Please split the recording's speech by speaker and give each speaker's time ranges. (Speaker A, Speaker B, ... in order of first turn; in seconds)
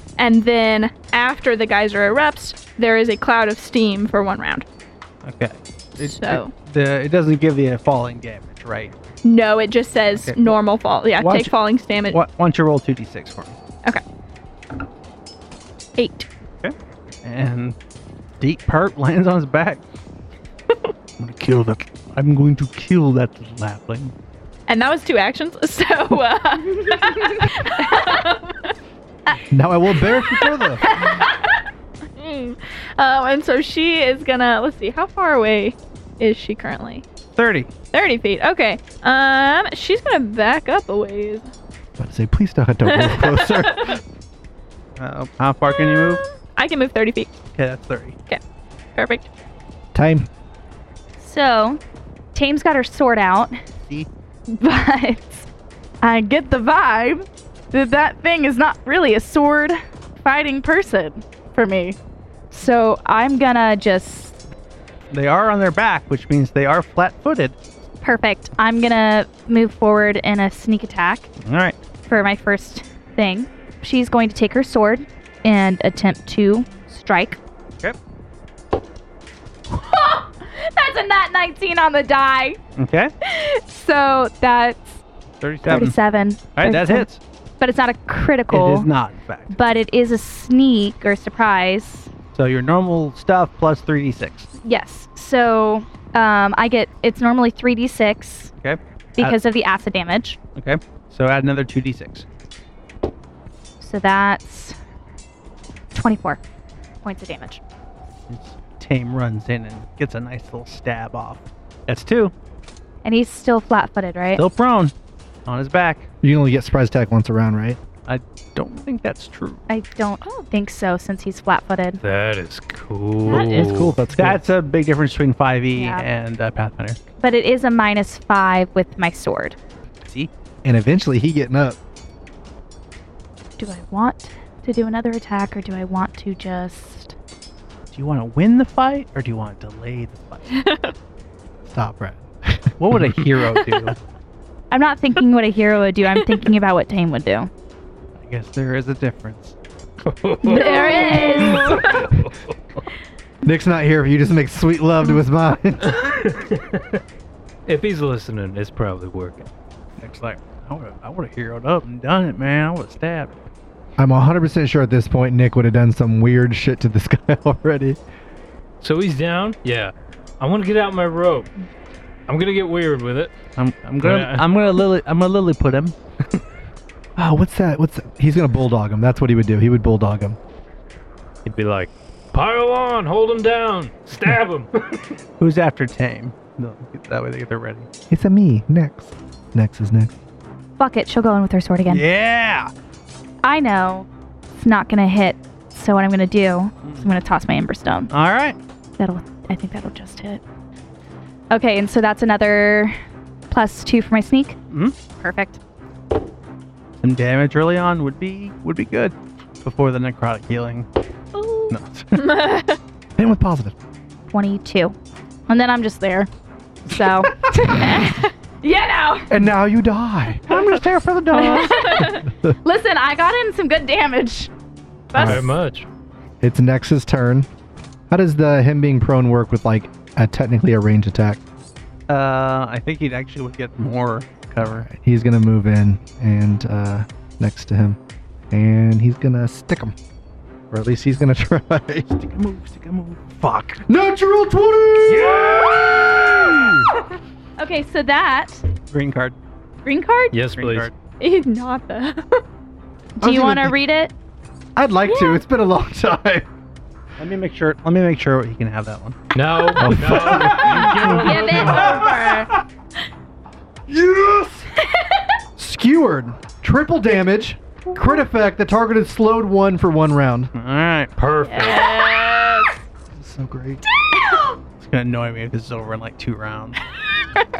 Speaker A: 0.2-4.7, 6.0-6.5, 9.2-12.2, 16.0-16.3, 24.7-28.7, 29.3-31.6, 32.1-37.0, 37.9-41.5, 42.9-43.9, 45.7-47.3, 49.0-49.3, 140.5-140.9, 150.4-152.1, 211.3-212.8, 221.7-222.2, 225.1-225.4, 251.2-252.4, 255.1-255.4, 271.4-272.8, 274.1-274.5
Speaker B: 5.2-8.9, 10.2-10.6, 11.2-11.5, 12.0-13.6, 16.6-17.8, 18.4-19.8, 21.2-24.1, 37.4-37.7, 45.0-46.2, 47.5-48.2, 65.1-67.6, 71.4-71.8, 82.8-83.1, 85.4-86.0, 86.5-87.2, 88.5-89.5, 92.3-94.5, 98.6-99.4, 100.5-102.2, 108.3-112.3, 114.3-114.9, 115.5-116.1, 118.0-119.6, 123.3-127.0, 137.9-140.5, 142.8-144.0, 148.2-149.5, 160.0-163.4, 173.6-175.9, 185.4-187.9, 191.9-192.7, 196.8-197.1, 198.1-198.6, 204.7-204.9, 207.0-210.9, 211.7-212.4, 220.5-221.8, 232.1-234.9, 242.1-243.8, 248.9-249.4, 250.5-250.9, 257.2-259.2, 270.5-271.1, 274.8-276.8
Speaker C: 29.5-30.8, 42.0-44.0, 49.9-50.3, 116.2-117.8, 123.8-124.5, 130.6-131.8, 141.7-142.7, 153.4-156.0, 164.0-168.0, 177.2-180.4, 188.1-190.1, 213.2-213.7, 219.3-220.9, 222.0-222.5, 225.1-225.4, 226.4-227.5, 228.1-231.4, 234.6-238.0, 238.5-239.9, 240.7-242.1, 243.8-246.8, 253.2-253.8, 254.8-256.4, 259.8-262.0, 263.9-264.7, 265.6-270.5, 273.1-273.8
Speaker D: 51.2-51.8, 52.3-53.6, 54.5-55.5, 56.0-62.0, 62.5-64.4, 68.0-71.3, 72.1-77.4, 79.7-82.6, 83.2-85.0, 85.6-87.1, 87.6-88.9, 89.5-92.1, 94.6-98.5, 99.2-100.4, 103.8-104.8, 105.9-106.4, 107.0-107.6, 113.0-114.4, 119.7-122.0, 123.3-123.7, 125.7-126.0, 127.2-129.6, 133.6-137.1, 144.7-147.5, 150.4-151.8, 190.8-192.0, 193.4-198.1, 199.0-200.4, 201.5-203.0, 203.5-204.6, 205.2-205.6, 214.3-214.9, 215.5-216.3, 216.9-219.3, 221.3-224.5, 247.6-248.7, 249.8-250.3, 253.2-254.1, 261.0-262.5
Speaker E: 122.0-124.0, 150.0-152.8, 155.8-157.0, 157.7-159.5, 168.8-171.5, 172.3-173.3, 174.0-174.8, 181.4-185.0, 225.2-225.9, 245.1-246.7, 250.3-250.9, 259.3-262.1, 271.2-272.0